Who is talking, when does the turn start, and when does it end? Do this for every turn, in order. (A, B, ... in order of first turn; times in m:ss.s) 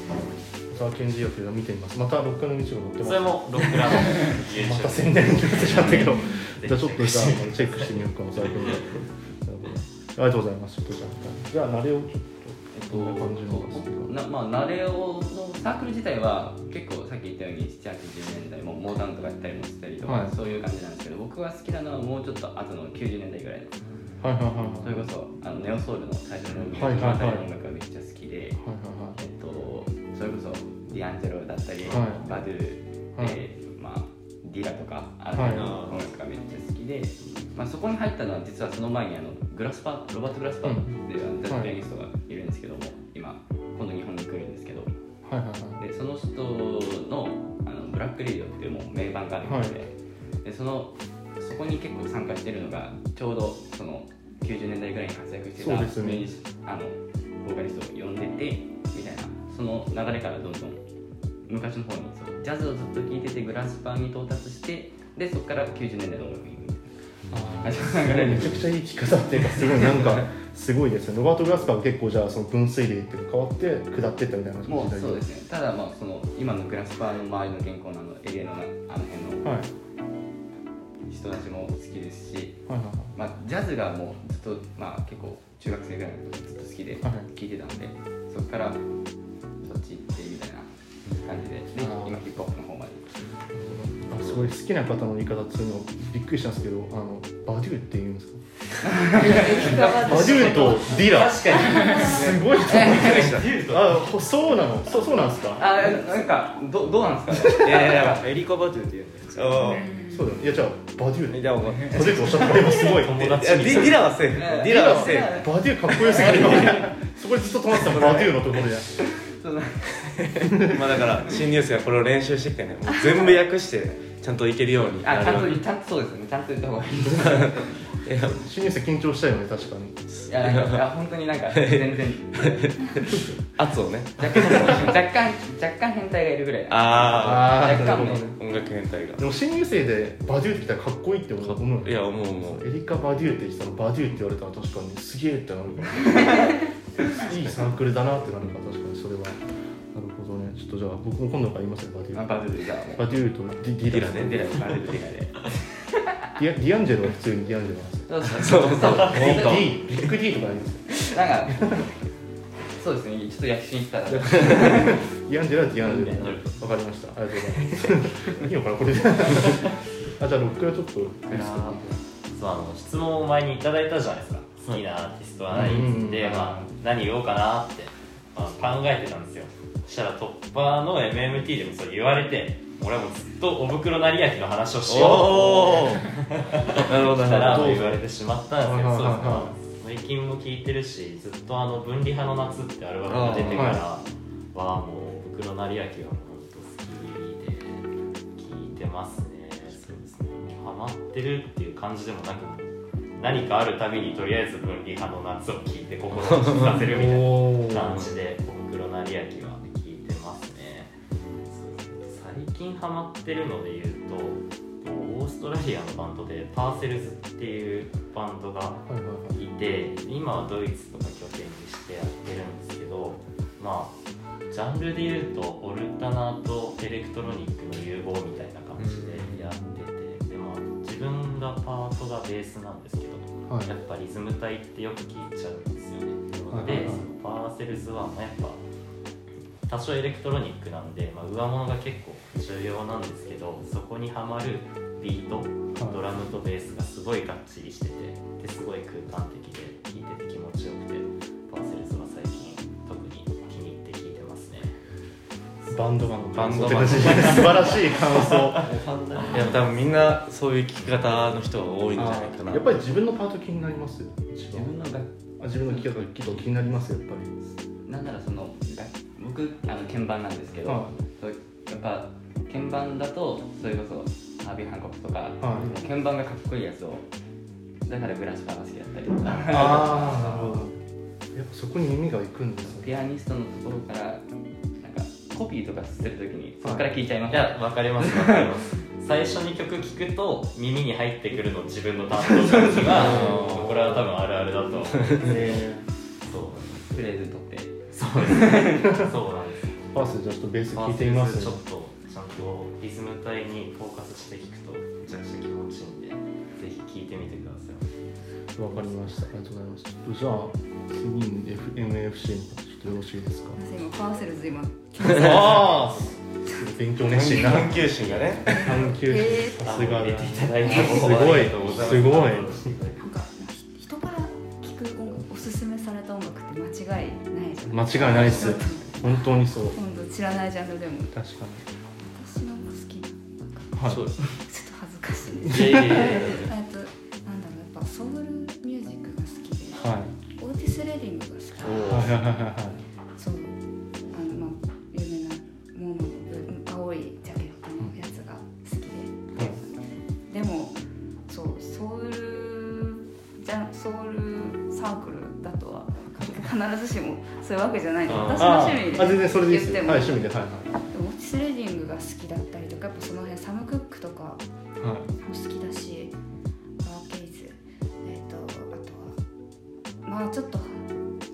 0:00.7-0:14.1 A
0:03.0-0:08.8 B
0:12.7-0:24.1 C
0:20.0-0:20.3 A
0:24.2-0:25.0 A
0:24.8-0:28.6 C
0:26.7-0:27.5 A
0:28.6-0:29.2 A
0:29.2-0:44.9 C
0:31.9-0:32.2 A
0:35.3-0:35.8 A
0:40.6-0:41.8 A
0:45.2-0:45.8 A
0:45.8-0:49.9 C
0:49.4-0:49.8 A
0:50.4-1:00.8 C
0:55.6-0:56.3 A
1:01.4-1:06.9 C
1:07.3-1:15.2 A
1:07.6-1:08.7 C
1:09.6-1:10.0 C
1:14.7-1:19.6 C
1:19.4-1:19.7 A
1:21.1-1:22.6 C
1:22.7-1:23.1 A
1:23.1-1:28.8 C
1:27.0-1:27.3 A
1:29.6-1:33.3 C
1:31.8-1:32.2 A
1:33.5-1:38.4 A
1:38.8-1:40.8 C
1:39.6-1:45.8 A
1:41.0-1:42.3 B
1:42.0-1:43.4 C
1:42.8-1:43.5 D
1:42.9-1:44.0 B
1:45.6-1:48.2 C
1:47.5-1:48.2 D
1:47.9-1:49.8 E
1:49.3-1:49.9 D
1:49.6-1:50.3 F
1:50.1-1:54.0 A
1:51.3-1:52.9 E
1:53.0-1:55.4 D
1:54.3-1:56.9 C
1:54.6-1:58.9 A
1:57.9-1:58.4 C
1:58.9-2:01.4 C
2:00.6-2:05.6 D
2:03.1-2:03.3 C
2:04.9-2:07.9 C
2:08.0-2:08.4 D
2:08.2-2:10.0 A
2:10.1-2:10.8 D
2:10.3-2:12.6 C
2:11.5-2:14.9 D
2:14.2-2:18.3 C
2:16.7-2:19.2 D
2:17.1-2:18.4 A
2:19.2-2:26.3 A
2:21.4-2:22.6 D
2:26.1-2:26.5 C
2:27.1-2:29.4 A
2:29.9-2:32.4 A
2:32.1-2:33.1 C
2:32.9-2:34.4 A
2:33.9-2:34.8 D
2:34.1-2:35.4 C
2:36.4-2:41.8 A
2:38.1-2:39.7 C
2:38.3-2:39.8 D
2:41.0-2:41.7 C
2:42.8-2:45.0 C
2:44.1-2:52.0 A
2:45.8-2:46.4 C
2:46.1-2:46.4 B
2:51.2-3:43.9 B
2:55.5-2:56.7 A
3:04.9-3:06.1 D
3:06.7-3:08.0 D
3:07.5-3:08.0 A
3:08.6-3:09.5 A
3:13.1-3:13.8 D
3:13.3-3:13.8 A
3:26.6-3:28.0 A
3:38.8-3:39.4 A
3:44.5-3:58.6 B
3:48.8-3:49.4 E
3:53.5-3:53.7 A
3:56.5-3:57.0 A
3:59.7-4:14.7 B
4:05.8-4:06.0 A
4:15.7-4:18.7 A
4:16.3-4:18.6 D
4:18.9-4:19.4 E
4:19.1-4:19.6 B
4:19.2-4:22.7 D
4:21.9-4:24.7 A
4:24.5-4:25.1 C
4:25.4-4:27.3 A
4:25.6-4:26.1 C
4:27.8-4:37.0 C
4:30.6-4:31.0 A
4:35.4-4:35.8 A
4:37.8-4:40.7 C
4:39.5-4:40.8 A
4:41.3-4:43.0 A
4:42.6-4:44.2 C
4:44.8-4:48.6 C
4:46.6-4:46.9 A
4:47.3-4:55.6 B
4:52.2-4:53.2 C
4:52.9-4:54.0 A
4:53.1-4:53.7 D
4:55.2-4:55.8 A
4:56.2-4:57.0 B
4:56.9-4:58.9 C
4:57.9-4:59.9 B
4:59.9-5:01.6 A
5:00.7-5:07.9 B
5:08.6-5:13.6 A
5:13.6-5:15.9 F
5:15.0-5:22.7 A
5:17.1-5:18.9 D
5:18.5-5:19.6 F
5:18.5-5:18.8 B
5:19.6-5:23.0 B
5:21.7-5:22.0 D
5:23.0-5:31.1 F
5:27.7-5:29.8 A
5:31.1-5:31.6 A
5:32.1-5:33.8 F
5:33.7-5:34.1 A
5:33.8-5:34.3 D
5:34.3-5:42.1 F
5:35.5-5:36.5 B
5:35.5-5:36.0 A
5:35.7-5:36.5 D
5:39.8-5:40.1 A
5:41.6-5:42.1 D
5:41.8-5:42.8 A
5:43.2-5:43.6 F
5:44.1-5:49.3 F
5:49.4-5:49.7 C
5:50.3-6:00.2 F
5:58.1-5:58.7 D
5:58.3-6:00.7 A
6:00.9-6:04.4 F
6:04.8-6:05.1 A
6:05.2-6:06.2 F
6:06.8-6:09.2 F
6:10.0-6:10.8 F